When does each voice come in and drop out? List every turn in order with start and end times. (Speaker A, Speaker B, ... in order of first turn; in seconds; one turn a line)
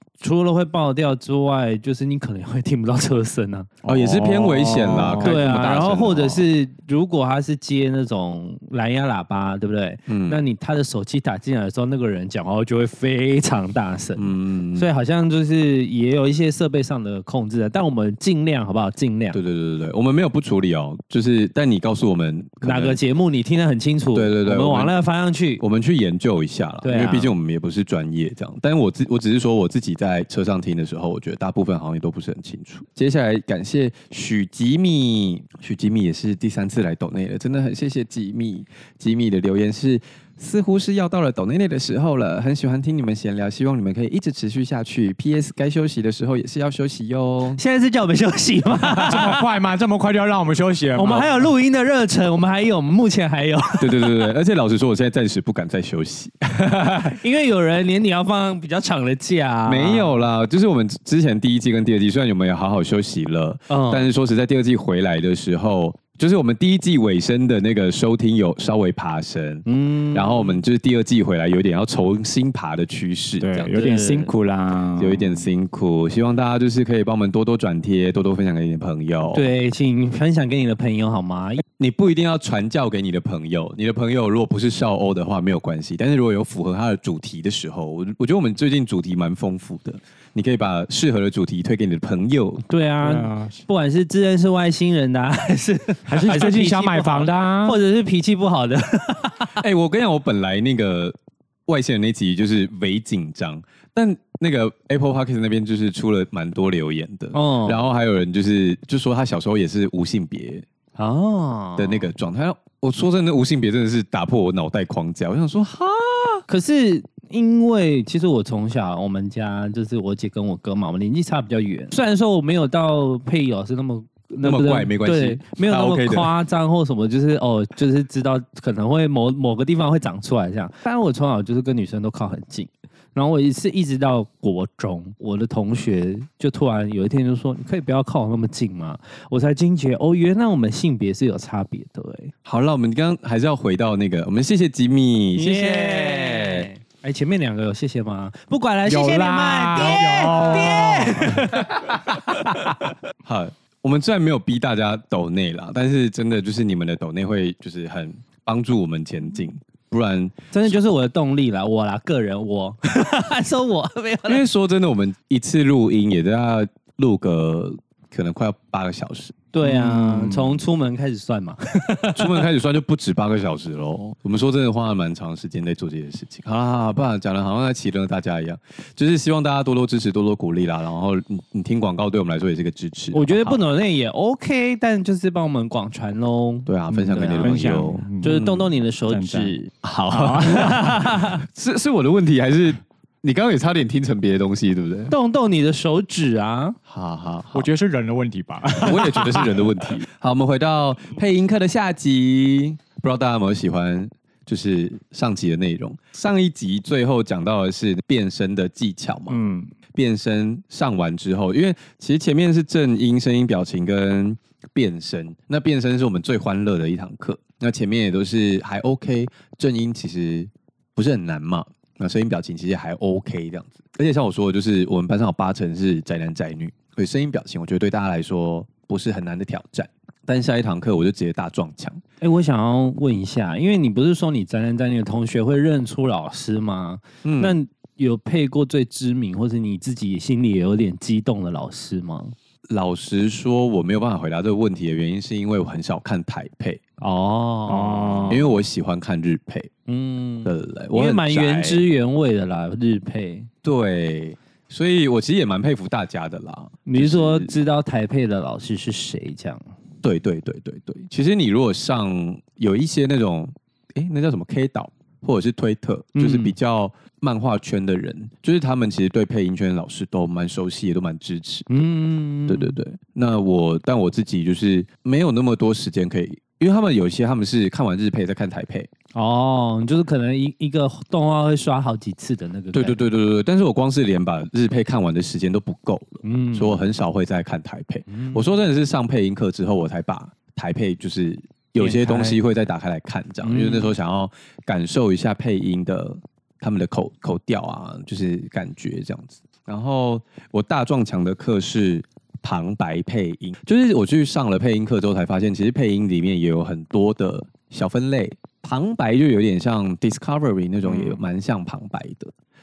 Speaker A: 0.2-3.7
Speaker B: 3.8-5.4
Speaker C: 3.8-6.5
Speaker A: 5.2-19.4
Speaker C: 10.1-10.4
Speaker C: 14.2-14.9
Speaker C: 19.3-23.0
Speaker A: 22.6-25.6
Speaker C: 24.1-24.9
Speaker C: 25.6-47.6
Speaker A: 26.8-27.3
Speaker A: 47.5-49.5
Speaker B: 48.9-51.5
Speaker A: 51.0-54.1
Speaker C: 53.8-57.2
Speaker A: 57.0-60.2
Speaker C: 59.6-73.7
Speaker A: 63.7-64.1
Speaker A: 69.7-70.6
Speaker B: 73.4-75.4
Speaker A: 73.7-74.3
Speaker C: 75.0-79.5
Speaker A: 79.3-81.6
Speaker C: 81.8-92.6
Speaker A: 92.7-99.5
Speaker B: 93.0-93.6
Speaker B: 96.0-97.8
Speaker C: 99.5-101.1
Speaker C: 101.7-110.7
Speaker A: 107.3-107.8
Speaker A: 111.0-112.1
Speaker C: 111.8-116.4
Speaker A: 116.5-142.3
Speaker C: 124.4-126.3
Speaker C: 142.4-146.7
Speaker A: 145.3-152.6
Speaker B: 148.8-151.6
Speaker C: 149.8-152.7
Speaker C: 153.2-160.7
Speaker A: 160.5-164.4
Speaker C: 164.3-169.3
Speaker A: 169.5-172.5
Speaker B: 169.6-170.6
Speaker C: 172.2-183.6
Speaker A: 183.1-187.6
Speaker C: 186.7-188.5
Speaker B: 187.4-189.5
Speaker A: 188.2-189.7
Speaker C: 189.8-195.1
Speaker B: 190.1-190.8
Speaker A: 190.3-191.4
Speaker A: 195.1-196.8
Speaker C: 196.9-197.7
Speaker B: 197.5-199.9
Speaker C: 198.8-209.4
Speaker B: 209.3-209.7
Speaker C: 209.9-232.0
Speaker A: 232.2-242.3
Speaker C: 237.2-237.5
Speaker C: 242.7-246.8
Speaker A: 247.0-248.4
Speaker B: 247.7-248.5
Speaker C: 248.3-249.7
Speaker A: 249.9-253.5
Speaker C: 250.4-251.8
Speaker C: 253.6-257.5
Speaker A: 256.8-259.6
Speaker C: 260.0-271.7
Speaker A: 266.1-266.6
Speaker A: 271.7-272.8
Speaker C: 272.5-278.9
Speaker A: 279.1-283.0
Speaker C: 282.7-312.3
Speaker A: 286.2-286.8
Speaker A: 288.1-288.5
Speaker A: 291.8-292.4
Speaker A: 293.4-293.9